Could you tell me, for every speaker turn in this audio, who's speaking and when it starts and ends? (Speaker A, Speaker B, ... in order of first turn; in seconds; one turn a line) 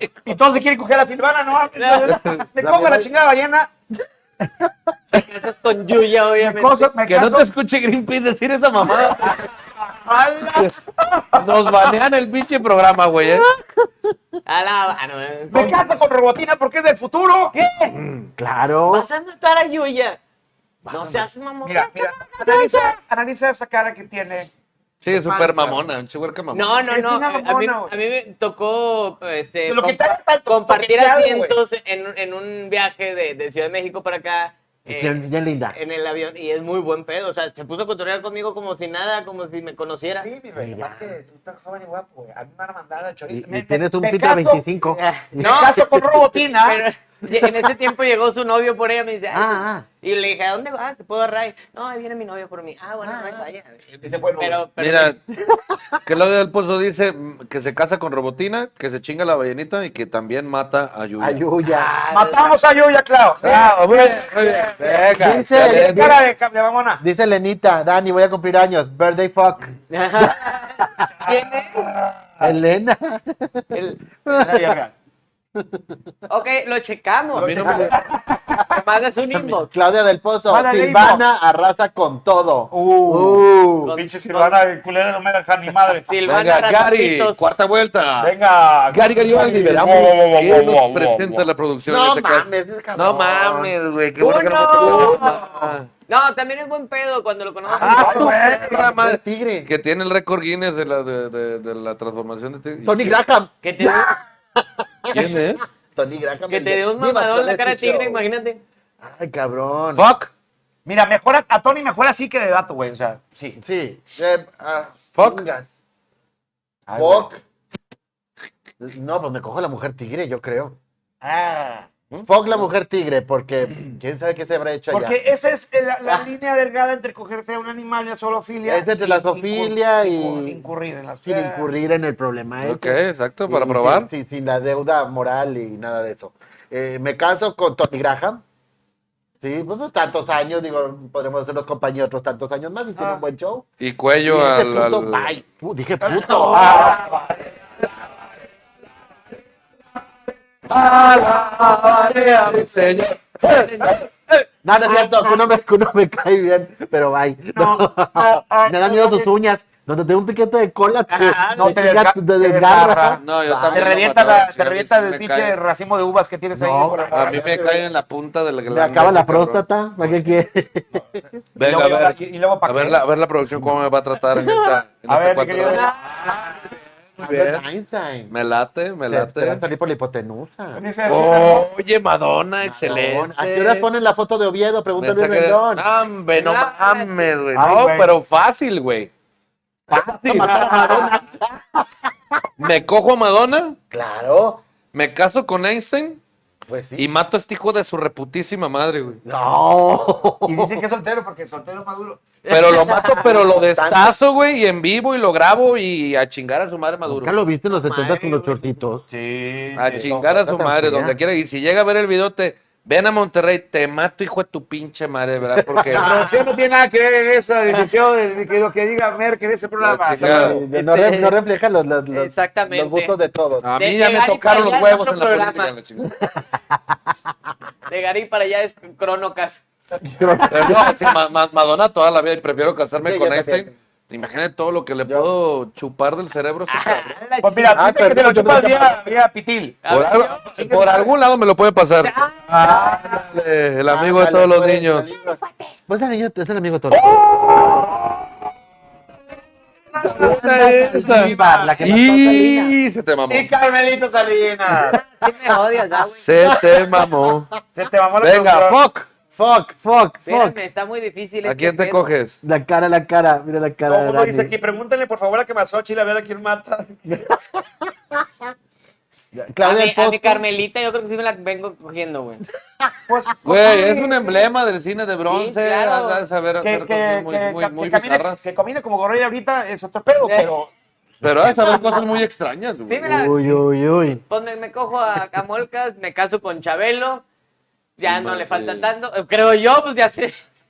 Speaker A: 0.2-3.7
Speaker B: 1.8-2.2
Speaker C: 2.0-2.5
Speaker D: 2.6-3.1
Speaker B: 5.1-6.9
Speaker A: 6.4-7.5
Speaker C: 7.1-9.4
Speaker B: 10.1-10.7
Speaker C: 11.4-13.5
Speaker D: 13.2-14.2
Speaker B: 14.4-15.8
Speaker A: 15.5-17.6
Speaker B: 17.5-18.0
Speaker C: 17.9-18.3
Speaker D: 18.4-19.1
Speaker B: 18.9-20.2
Speaker D: 20.9-21.3
Speaker B: 20.9-22.9
Speaker A: 21.6-24.5
Speaker C: 25.0-26.8
Speaker A: 25.2-25.7
Speaker B: 26.5-35.2
Speaker A: 26.9-27.9
Speaker A: 29.7-31.6
Speaker D: 34.9-35.8
Speaker B: 35.7-40.3
Speaker A: 40.1-44.6
Speaker D: 40.6-41.1
Speaker D: 43.3-46.2
Speaker B: 44.9-45.8
Speaker A: 45.4-46.8
Speaker B: 46.6-55.2
Speaker D: 49.3-49.9
Speaker D: 53.0-53.5
Speaker A: 54.0-54.6
Speaker C: 54.8-55.2
Speaker D: 55.5-56.0
Speaker C: 56.0-61.4
Speaker D: 61.2-61.9
Speaker B: 61.7-62.5
Speaker A: 62.1-67.0
Speaker C: 63.4-66.2
Speaker D: 65.2-66.2
Speaker D: 67.0-69.7
Speaker B: 69.9-71.9
Speaker A: 71.1-72.5
Speaker D: 72.4-73.7
Speaker B: 73.7-74.0
Speaker D: 74.2-74.7
Speaker A: 74.3-74.9
Speaker D: 75.5-76.0
Speaker B: 76.3-77.9
Speaker C: 77.4-78.0
Speaker A: 77.6-78.7
Speaker B: 78.7-79.7
Speaker D: 79.7-83.9
Speaker A: 80.5-81.2
Speaker A: 82.7-86.1
Speaker B: 83.8-84.6
Speaker B: 86.0-87.4
Speaker C: 86.3-88.3
Speaker A: 88.2-91.5
Speaker C: 88.9-95.9
Speaker D: 91.9-93.7
Speaker B: 94.2-98.3
Speaker D: 97.8-99.7
Speaker A: 97.8-98.9
Speaker C: 97.8-103.2
Speaker D: 102.8-105.4
Speaker B: 103.6-104.2
Speaker C: 105.1-105.6
Speaker D: 106.0-108.2
Speaker B: 106.5-108.6
Speaker D: 109.0-110.0
Speaker C: 110.0-110.3
Speaker A: 110.8-113.6
Speaker D: 113.6-115.7
Speaker C: 115.2-115.4
Speaker A: 116.9-117.3
Speaker D: 116.9-117.4
Speaker D: 118.8-125.2
Speaker A: 124.9-131.7
Speaker D: 128.6-130.6
Speaker D: 131.2-138.4
Speaker C: 132.6-134.1
Speaker D: 139.4-143.7
Speaker C: 143.8-145.3
Speaker D: 144.2-146.9
Speaker A: 146.1-147.9
Speaker C: 146.2-147.1
Speaker C: 150.7-154.0
Speaker D: 154.6-164.0
Speaker B: 154.9-155.3
Speaker A: 157.6-159.3
Speaker B: 161.1-161.8
Speaker A: 161.6-167.5
Speaker C: 163.2-165.6
Speaker D: 166.5-167.9
Speaker C: 167.1-170.3
Speaker D: 168.7-171.2
Speaker C: 171.6-177.6
Speaker A: 171.6-173.0
Speaker A: 175.1-175.9
Speaker B: 175.7-176.3
Speaker D: 177.2-178.3
Speaker C: 178.3-179.6
Speaker D: 179.1-180.8
Speaker A: 180.7-181.7
Speaker C: 181.1-183.9
Speaker D: 182.6-185.9
Speaker C: 185.0-189.1
Speaker B: 186.3-187.1
Speaker A: 187.6-188.1
Speaker D: 189.9-191.9
Speaker C: 189.9-190.9
Speaker A: 190.6-191.1
Speaker C: 192.6-193.8
Speaker D: 193.9-194.6
Speaker C: 194.9-196.2
Speaker D: 196.7-197.1
Speaker C: 197.0-199.2
Speaker D: 199.2-200.8
Speaker A: 200.4-202.2
Speaker B: 202.4-203.3
Speaker C: 202.5-207.3
Speaker D: 203.2-204.1
Speaker D: 207.1-209.0
Speaker B: 207.8-208.7
Speaker A: 209.1-210.3
Speaker C: 209.8-216.3
Speaker D: 210.0-211.2
Speaker D: 215.5-216.1
Speaker A: 215.9-220.6
Speaker B: 215.9-216.4
Speaker C: 219.8-220.6
Speaker D: 220.2-223.7
Speaker B: 220.7-221.4
Speaker B: 222.1-223.1
Speaker C: 223.6-226.1
Speaker B: 223.8-225.7
Speaker B: 227.9-229.6
Speaker D: 230.0-231.0
Speaker C: 230.5-237.1
Speaker D: 233.0-233.7
Speaker B: 236.7-237.9
Speaker A: 237.4-239.8
Speaker D: 237.7-239.0
Speaker B: 239.8-240.6
Speaker C: 239.9-245.1
Speaker A: 240.6-241.1
Speaker B: 242.0-243.0
Speaker D: 243.9-247.0
Speaker B: 245.2-245.7
Speaker C: 246.9-248.2
Speaker A: 249.9-252.0
Speaker D: 250.0-252.7
Speaker C: 250.0-253.5
Speaker A: 253.3-255.0
Speaker B: 254.9-256.3
Speaker C: 256.2-257.5
Speaker D: 256.4-257.1
Speaker A: 257.7-258.8
Speaker C: 258.2-259.1
Speaker D: 259.3-260.6
Speaker B: 260.2-262.1
Speaker C: 261.4-262.4
Speaker D: 262.4-264.5
Speaker A: 263.9-267.0
Speaker D: 267.1-268.2
Speaker D: 269.3-270.4
Speaker B: 269.6-272.4
Speaker A: 273.1-274.4
Speaker C: 273.4-278.4
Speaker B: 275.3-276.2
Speaker A: 276.6-280.7
Speaker B: 280.2-280.5
Speaker C: 281.2-283.1
Speaker B: 281.6-282.1
Speaker B: 282.9-283.6
Speaker D: 283.1-284.2
Speaker B: 284.3-287.2
Speaker B: 288.0-290.4
Speaker C: 288.1-288.9